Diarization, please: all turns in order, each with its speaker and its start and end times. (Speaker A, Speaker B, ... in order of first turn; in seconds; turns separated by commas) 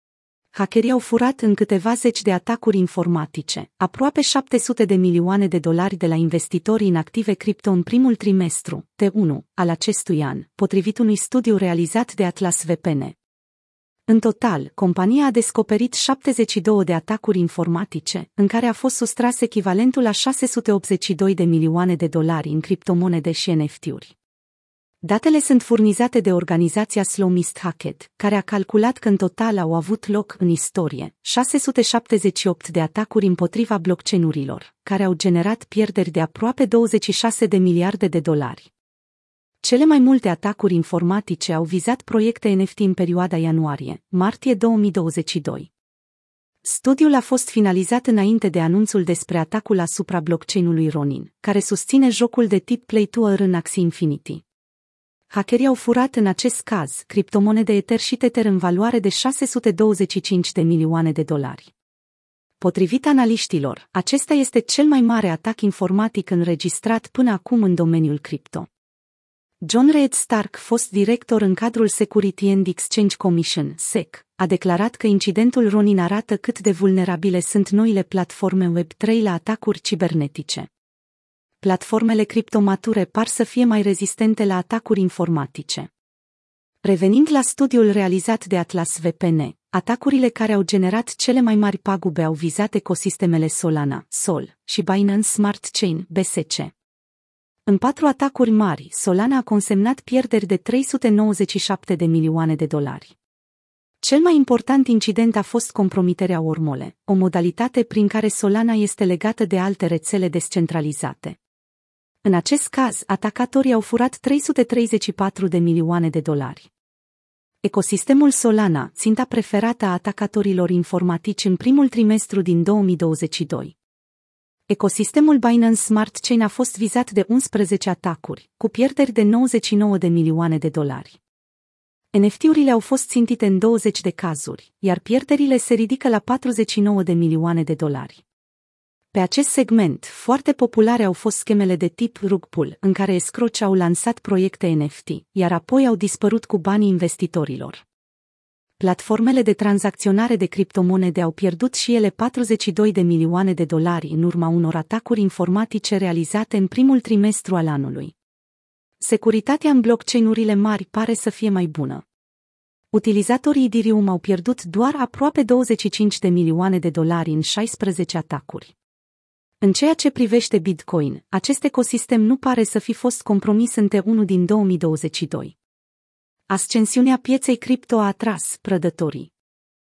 Speaker A: 0.5-13.2, Speaker A: 14.1-24.1, Speaker A: 25.0-38.7, Speaker A: 39.6-45.7, Speaker A: 46.6-54.4, Speaker A: 55.3-61.7, Speaker A: 62.6-68.7, Speaker A: 69.6-80.7, Speaker A: 81.6-85.9, Speaker A: 86.8-96.7, Speaker A: 97.7-103.1, Speaker A: 104.0-111.4, Speaker A: 112.2-116.7, Speaker A: 117.6-123.7, Speaker A: 124.7-131.2, Speaker A: 132.1-138.2, Speaker A: 139.1-147.8, Speaker A: 148.8-158.1, Speaker A: 159.0-162.0, Speaker A: 162.9-168.7, Speaker A: 169.6-175.5, Speaker A: 176.5-179.3